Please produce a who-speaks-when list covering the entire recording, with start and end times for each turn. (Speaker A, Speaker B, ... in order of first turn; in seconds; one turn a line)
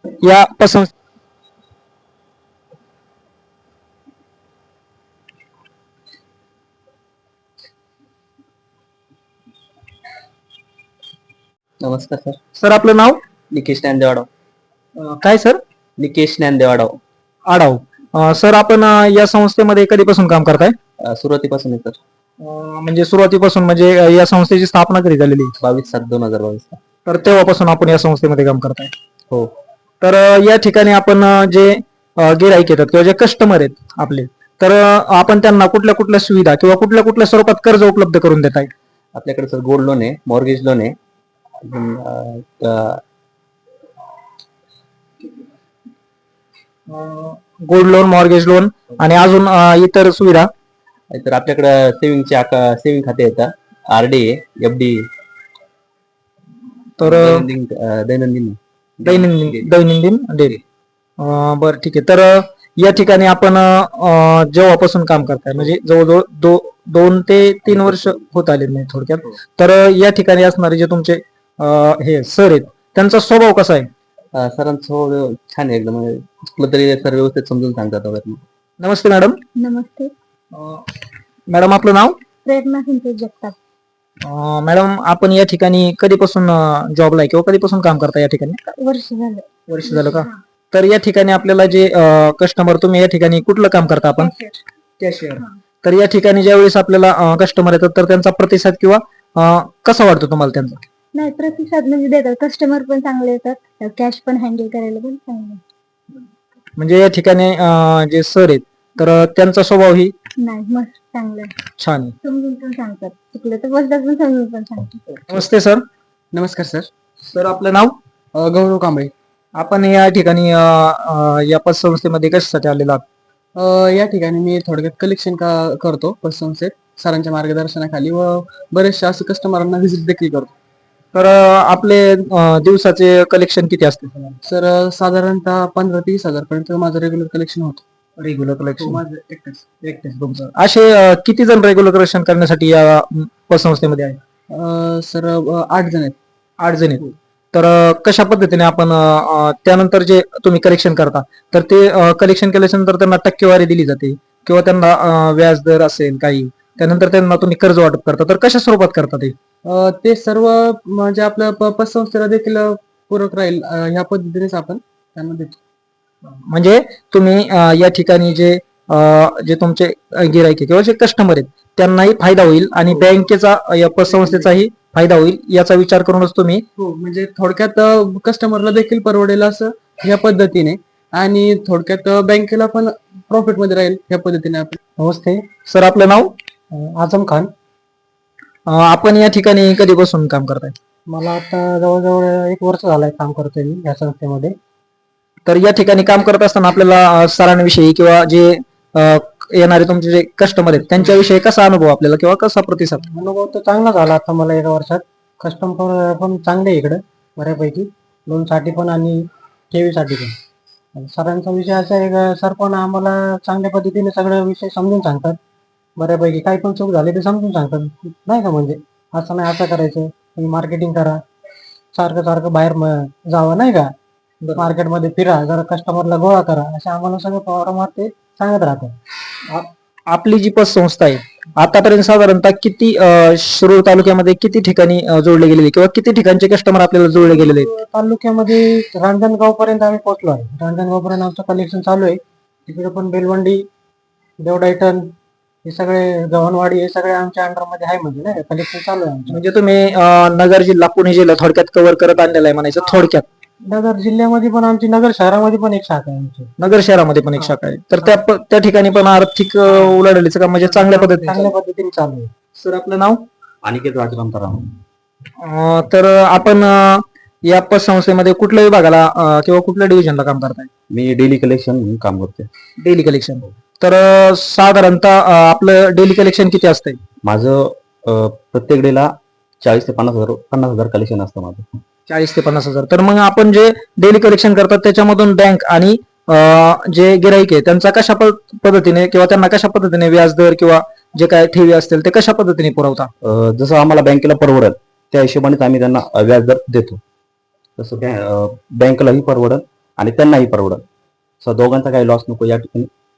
Speaker A: 0.2-0.9
Speaker B: 11.8-12.4
Speaker A: 12.6-13.2
Speaker B: 13.5-14.3
Speaker A: 14.9-15.6
Speaker B: 16.0-17.0
Speaker A: 17.5-20.8
Speaker B: 21.0-22.0
Speaker A: 22.4-25.6
Speaker B: 25.6-26.8
Speaker A: 27.1-28.9
Speaker A: 30.0-38.7
Speaker B: 39.1-41.0
Speaker B: 41.6-43.0
Speaker A: 46.9-50.5
Speaker B: 51.1-55.1
Speaker A: 57.0-57.5
Speaker B: 57.0-59.7
Speaker A: 59.0-60.5
Speaker A: 61.2-73.9
Speaker B: 67.7-68.2
Speaker B: 74.3-78.4
Speaker A: 78.8-79.4
Speaker C: 79.5-80.1
Speaker A: 80.5-80.8
Speaker A: 81.5-82.2
Speaker C: 82.4-83.5
Speaker A: 84.2-88.6
Speaker C: 88.7-90.4
Speaker A: 89.7-94.3
Speaker C: 94.2-94.6
Speaker A: 95.0-100.8
Speaker C: 101.1-105.6
Speaker A: 106.8-110.1
Speaker C: 110.4-111.5
Speaker A: 111.8-112.1
Speaker C: 112.2-115.1
Speaker A: 115.3-115.8
Speaker D: 116.3-116.9
Speaker A: 117.3-117.9
Speaker D: 118.3-119.1
Speaker A: 119.6-123.0
Speaker D: 123.5-130.5
Speaker A: 131.1-134.3
Speaker D: 134.4-137.8
Speaker A: 138.2-139.0
Speaker D: 138.8-139.7
Speaker A: 139.8-144.2
Speaker D: 144.5-146.2
Speaker A: 146.6-159.3
Speaker D: 159.6-165.6
Speaker A: 166.4-176.6
Speaker D: 174.1-174.6
Speaker D: 176.8-184.8
Speaker E: 185.0-185.4
Speaker A: 185.7-186.3
Speaker E: 186.7-187.5
Speaker A: 188.7-190.7
Speaker E: 191.1-194.6
Speaker A: 195.4-203.0
Speaker E: 203.1-210.3
Speaker E: 210.9-215.4
Speaker E: 216.0-221.2
Speaker E: 221.9-223.9
Speaker E: 224.6-228.9
Speaker A: 229.5-237.7
Speaker E: 237.3-243.7
Speaker E: 244.4-245.1
Speaker E: 245.6-249.4
Speaker A: 249.3-253.2
Speaker E: 253.6-256.6
Speaker A: 256.6-261.4
Speaker E: 260.7-262.3
Speaker A: 262.6-263.2
Speaker B: 263.6-264.8
Speaker A: 265.4-270.7
Speaker B: 270.9-272.5
Speaker A: 272.8-277.0
Speaker B: 277.2-281.6
Speaker A: 282.1-293.1
Speaker B: 293.2-297.0
Speaker B: 297.8-300.8
Speaker B: 301.4-302.9